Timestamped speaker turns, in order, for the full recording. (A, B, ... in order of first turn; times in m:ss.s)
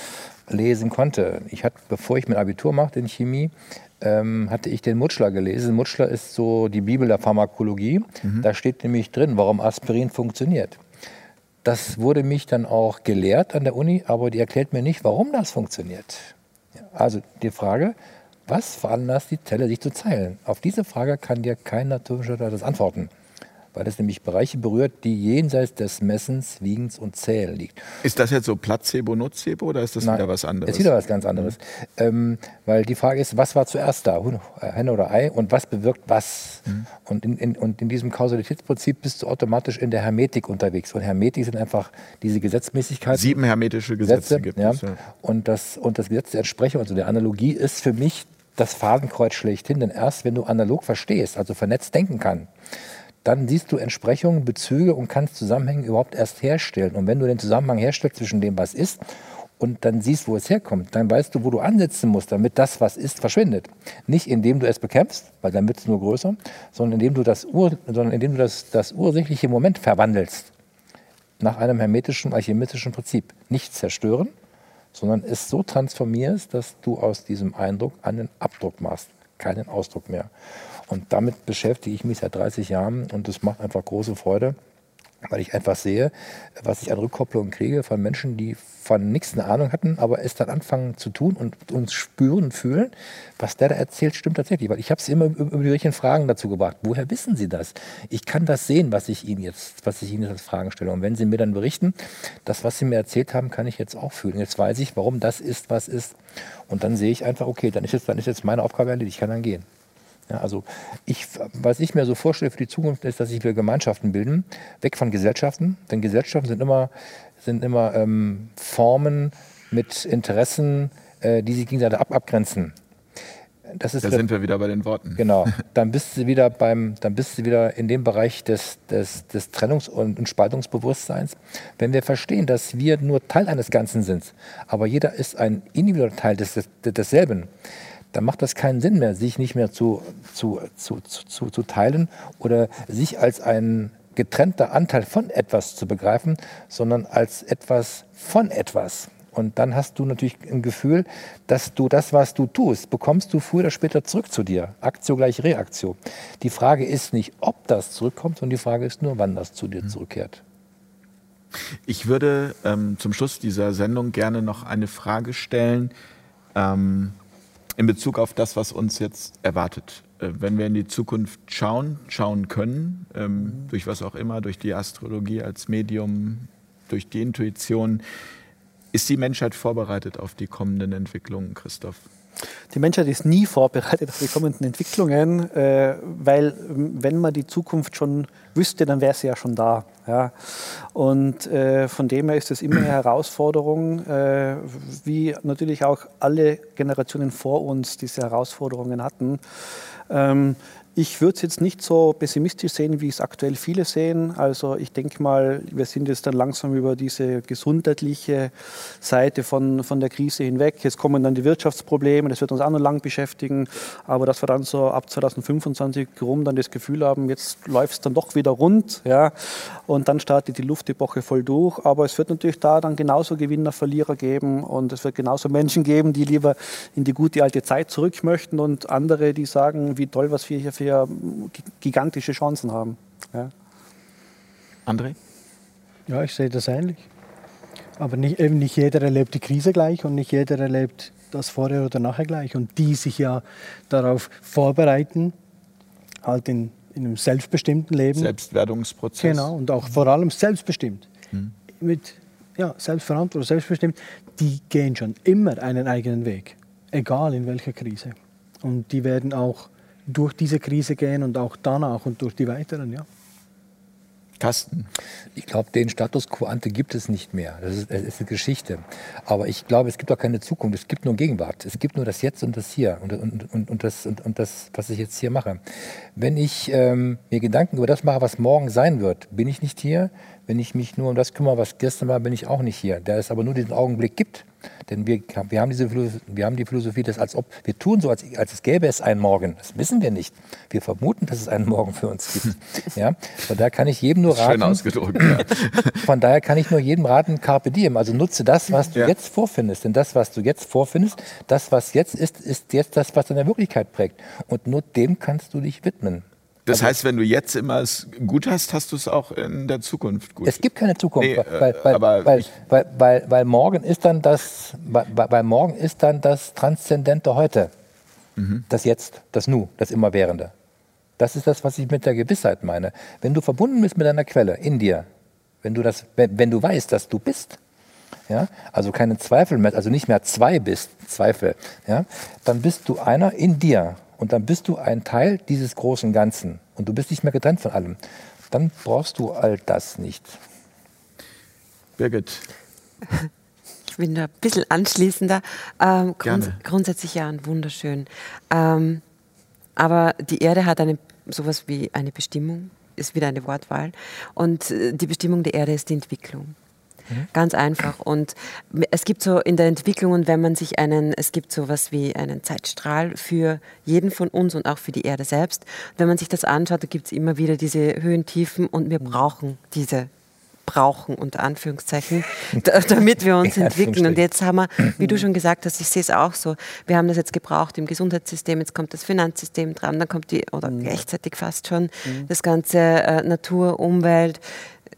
0:00.5-0:10.8 A
0:11.6-0:18.0 A
0:18.5-0:23.1 A
0:23.7-0:28.0 A
0:28.0-0:31.5 B
0:30.0-0:43.4 A
0:43.1-0:45.0 B
0:44.0-0:52.5 A
0:53.2-0:59.0 A
0:59.6-1:10.5 A
1:11.4-1:14.3 A
1:14.9-1:20.3 A
1:20.9-1:24.6 A
1:25.2-1:49.6 A
1:50.3-1:56.9 A
1:57.4-2:02.8 A
2:03.7-2:04.2 A
2:04.0-2:05.6 B
2:05.2-2:17.5 A
2:18.1-2:40.4 A
2:41.8-2:45.9 B
2:46.5-2:47.2 B
2:47.8-2:58.0 B
2:58.9-3:02.0 B
3:02.7-3:53.5 C
3:54.8-3:55.2 B
3:56.1-3:57.1 D
3:58.0-4:05.3 D
4:06.2-4:08.3 D
4:08.1-4:09.5 B
4:09.2-4:11.1 D
4:11.8-4:23.0 D
4:24.4-4:24.9 B
4:25.3-4:55.5 A
4:54.3-4:56.1 B
4:56.0-5:06.9 A
5:06.7-5:10.6 B
5:10.4-5:17.7 A
5:11.2-5:12.5 B
5:18.4-5:18.6 B
5:18.7-5:20.5 A
5:21.2-5:25.1 A
5:25.6-5:27.6 A
5:28.3-5:38.0 A
5:38.5-5:40.4 A
5:42.0-5:42.5 B
5:43.8-5:49.0 E
5:46.2-5:46.6 B
5:49.8-5:56.5 E
5:57.3-6:10.1 E
6:10.6-6:24.4 E
6:13.4-6:14.2 A